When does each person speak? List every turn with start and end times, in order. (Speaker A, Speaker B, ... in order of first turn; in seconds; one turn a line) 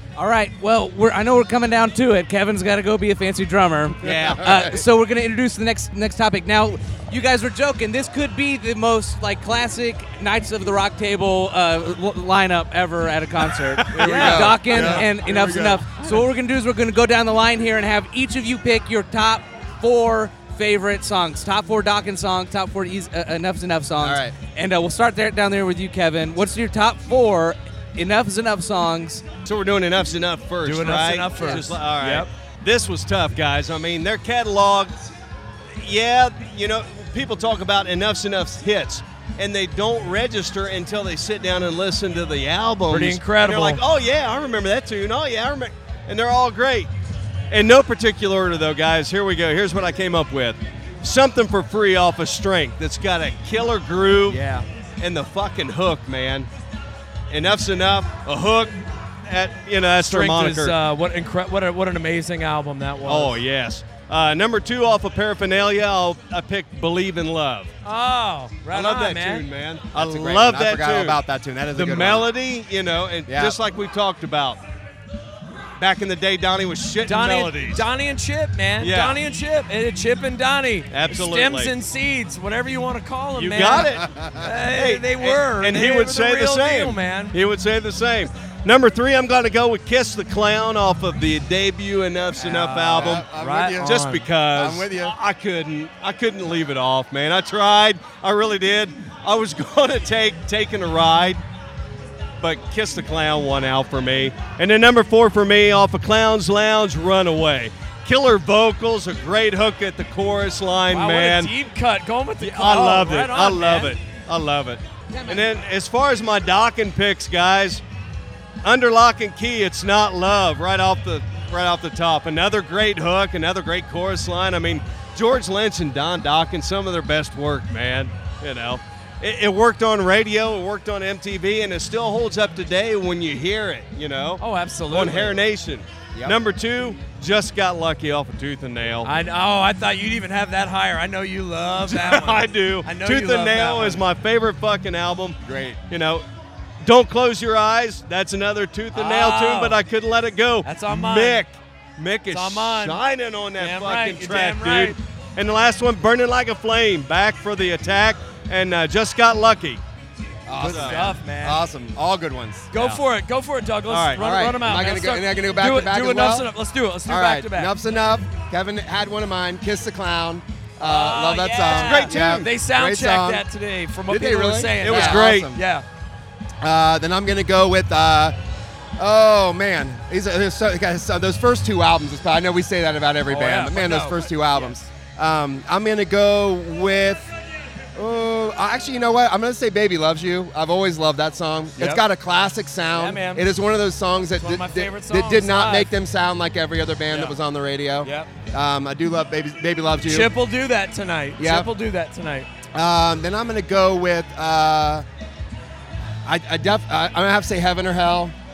Speaker A: 0.2-29.2
Speaker B: 4.0-4.5
Speaker C: 4.2-4.8
Speaker C: 13.9-15.8
Speaker D: 13.9-15.1
Speaker B: 14.0-14.3
Speaker C: 24.0-24.4
Speaker B: 29.4-35.0
Speaker D: 30.6-32.3
Speaker B: 35.8-46.9
Speaker D: 42.9-43.8
Speaker B: 47.5-54.4
Speaker D: 54.3-54.6
Speaker B: 55.0-56.5
Speaker B: 57.3-60.8
Speaker D: 60.0-63.4
Speaker B: 63.0-67.7
Speaker D: 67.8-69.5
Speaker B: 68.7-71.2
Speaker C: 69.9-72.3
Speaker B: 71.7-74.6
Speaker C: 73.3-73.6
Speaker B: 75.8-77.8
Speaker D: 77.0-87.4
Speaker B: 78.8-79.2
Speaker B: 80.9-81.7
Speaker B: 83.4-84.1
Speaker C: 83.8-84.4
Speaker B: 84.7-93.2
Speaker D: 92.4-94.3
Speaker C: 92.8-94.0
Speaker B: 93.8-101.4
Speaker C: 94.5-95.2
Speaker B: 102.4-111.5
Speaker D: 110.9-114.0
Speaker B: 112.4-117.8
Speaker B: 118.6-139.1
Speaker D: 134.4-135.4
Speaker D: 139.0-144.0
Speaker B: 141.9-145.4
Speaker C: 145.4-145.8
Speaker B: 145.9-146.2
Speaker B: 146.8-159.8
Speaker D: 148.9-149.8
Speaker D: 150.6-151.4
Speaker D: 152.3-153.0
Speaker D: 153.6-155.0
Speaker C: 160.5-162.7
Speaker D: 160.5-161.6
Speaker B: 160.6-161.1
Speaker D: 162.7-167.7
Speaker B: 162.8-163.0
Speaker B: 163.9-164.3
Speaker C: 164.2-166.5
Speaker C: 167.1-173.4
Speaker D: 170.8-175.8
Speaker B: 171.6-172.4
Speaker C: 174.1-175.6
Speaker B: 174.8-175.5
Speaker C: 176.6-178.4
Speaker C: 179.0-187.3
Speaker D: 183.3-184.8
Speaker C: 188.0-200.3
Speaker D: 191.8-192.0
Speaker D: 192.9-193.5
Speaker D: 194.4-195.9
Speaker D: 198.0-198.3
Speaker D: 200.0-202.5
Speaker C: 201.4-201.7
Speaker C: 202.8-205.1
Speaker C: 206.3-208.3